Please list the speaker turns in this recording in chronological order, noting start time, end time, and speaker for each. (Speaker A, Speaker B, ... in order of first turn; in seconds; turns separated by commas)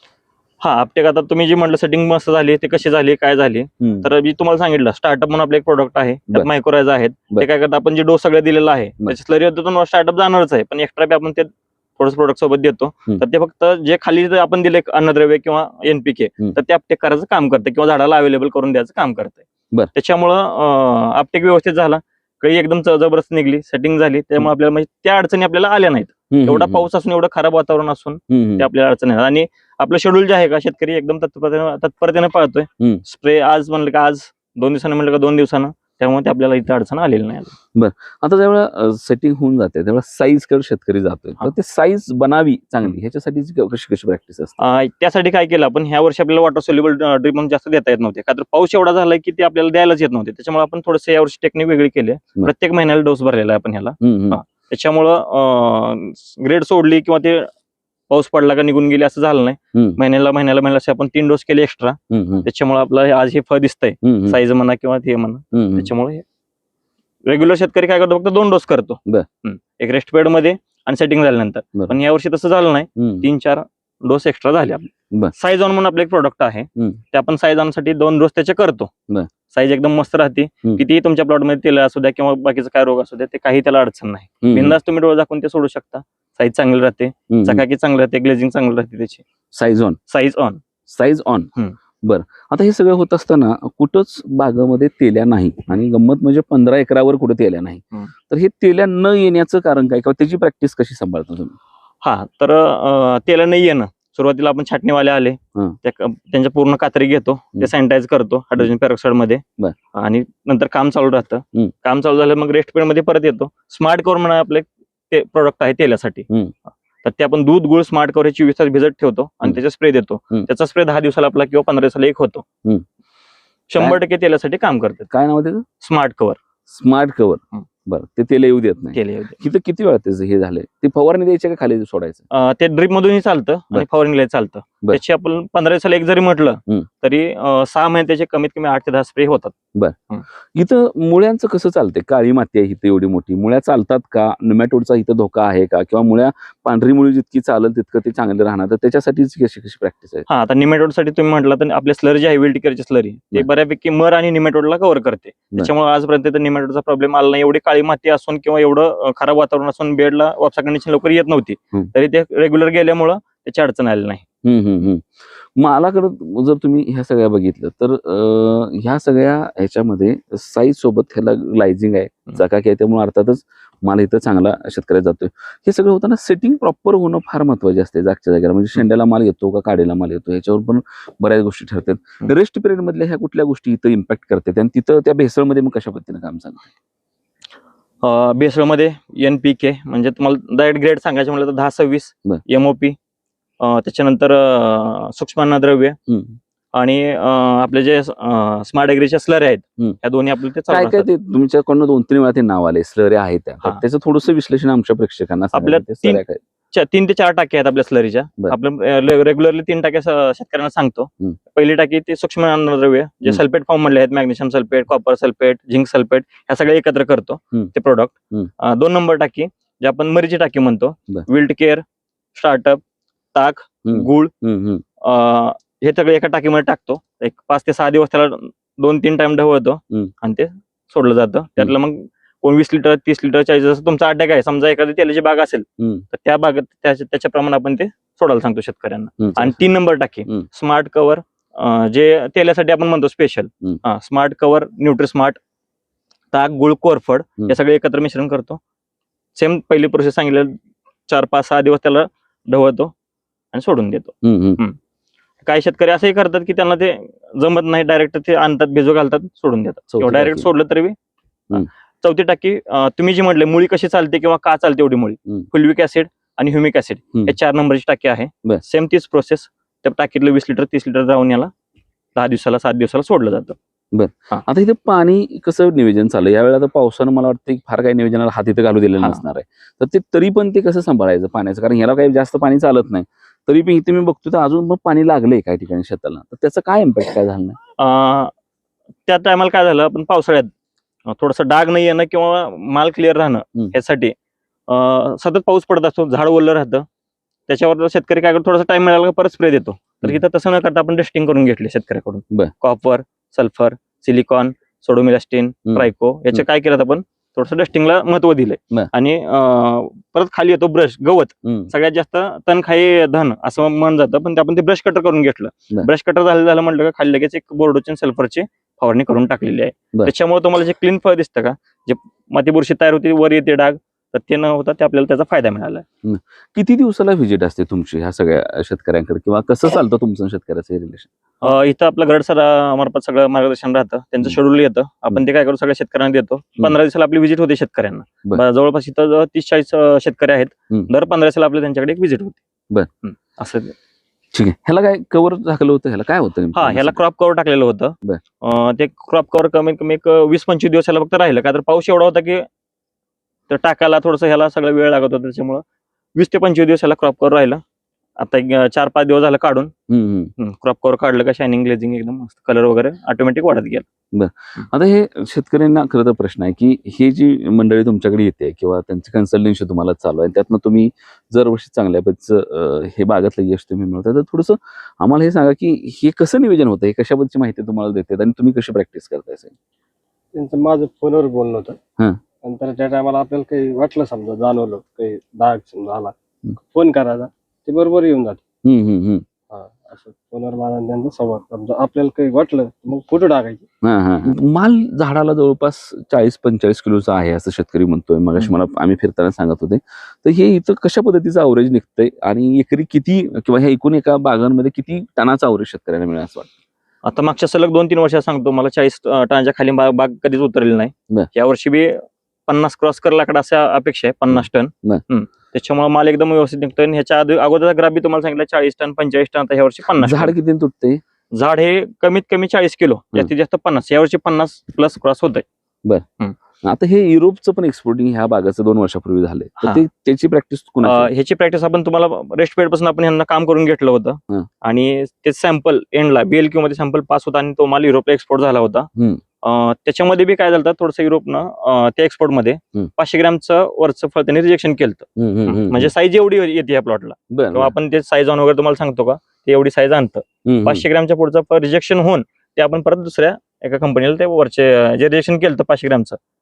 Speaker A: 0.6-19.4, Speaker B: 3.8-4.1, Speaker A: 19.9-37.5, Speaker B: 26.3-26.9, Speaker B: 28.3-28.7, Speaker B: 37.7-44.5, Speaker A: 44.6-57.5, Speaker B: 54.0-54.4, Speaker A: 58.1-66.2, Speaker B: 59.7-60.0, Speaker B: 62.1-62.5, Speaker B: 64.0-64.4, Speaker B: 65.5-65.9, Speaker A: 67.2-78.9, Speaker B: 73.0-73.3, Speaker A: 79.5-89.2, Speaker B: 84.4-84.8, Speaker B: 87.3-87.6, Speaker B: 89.5-90.0, Speaker A: 90.1-90.6, Speaker B: 90.9-91.5, Speaker B: 92.0-101.5, Speaker A: 102.0-109.4, Speaker A: 109.9-116.3, Speaker A: 117.0-122.4, Speaker A: 123.7-125.1, Speaker B: 125.1-125.6, Speaker A: 125.8-126.4, Speaker B: 126.7-132.2, Speaker A: 128.9-129.4, Speaker A: 132.3-139.5, Speaker B: 140.5-150.3, Speaker A: 150.3-164.2, Speaker B: 164.4-165.1, Speaker B: 165.6-186.7, Speaker A: 188.0-192.9, Speaker A: 193.6-196.0, Speaker B: 196.1-196.4, Speaker A: 196.7-201.1, Speaker B: 200.7-206.4, Speaker A: 205.5-206.2, Speaker A: 206.7-221.8, Speaker A: 222.3-222.8, Speaker A: 223.3-224.3, Speaker B: 223.8-224.8, Speaker A: 225.0-245.4, Speaker B: 235.8-236.0, Speaker B: 239.2-239.6, Speaker A: 246.3-248.6, Speaker A: 249.3-250.6, Speaker A: 251.1-252.9, Speaker A: 253.5-254.8, Speaker B: 254.2-254.6, Speaker A: 255.4-260.9, Speaker B: 259.9-260.5, Speaker A: 261.5-271.5, Speaker A: 272.1-273.6, Speaker B: 273.9-287.6, Speaker A: 287.8-288.3, Speaker A: 289.1-290.5, Speaker A: 291.1-294.1, Speaker A: 294.7-296.9, Speaker A: 297.5-325.8, Speaker B: 305.7-306.4, Speaker B: 311.4-311.7, Speaker B: 326.0-331.1, Speaker A: 331.4-342.4, Speaker A: 343.0-343.7, Speaker B: 344.3-347.0, Speaker A: 346.5-352.4, Speaker A: 353.5-355.6, Speaker A: 356.1-357.6, Speaker A: 358.2-359.7, Speaker B: 359.9-360.3, Speaker A: 360.4-363.9, Speaker B: 364.1-379.5, Speaker C: 380.3-381.8, Speaker C: 382.4-386.1, Speaker C: 386.7-388.4, Speaker B: 388.6-389.2, Speaker C: 389.5-393.6, Speaker B: 393.8-406.5, Speaker A: 407.0-420.3, Speaker B: 414.3-415.0, Speaker B: 420.0-421.0, Speaker A: 421.3-425.4, Speaker B: 426.6-431.1, Speaker A: 429.6-429.8, Speaker A: 430.8-438.9, Speaker A: 439.4-456.2, Speaker B: 445.2-445.9, Speaker B: 447.3-447.7, Speaker B: 450.4-450.8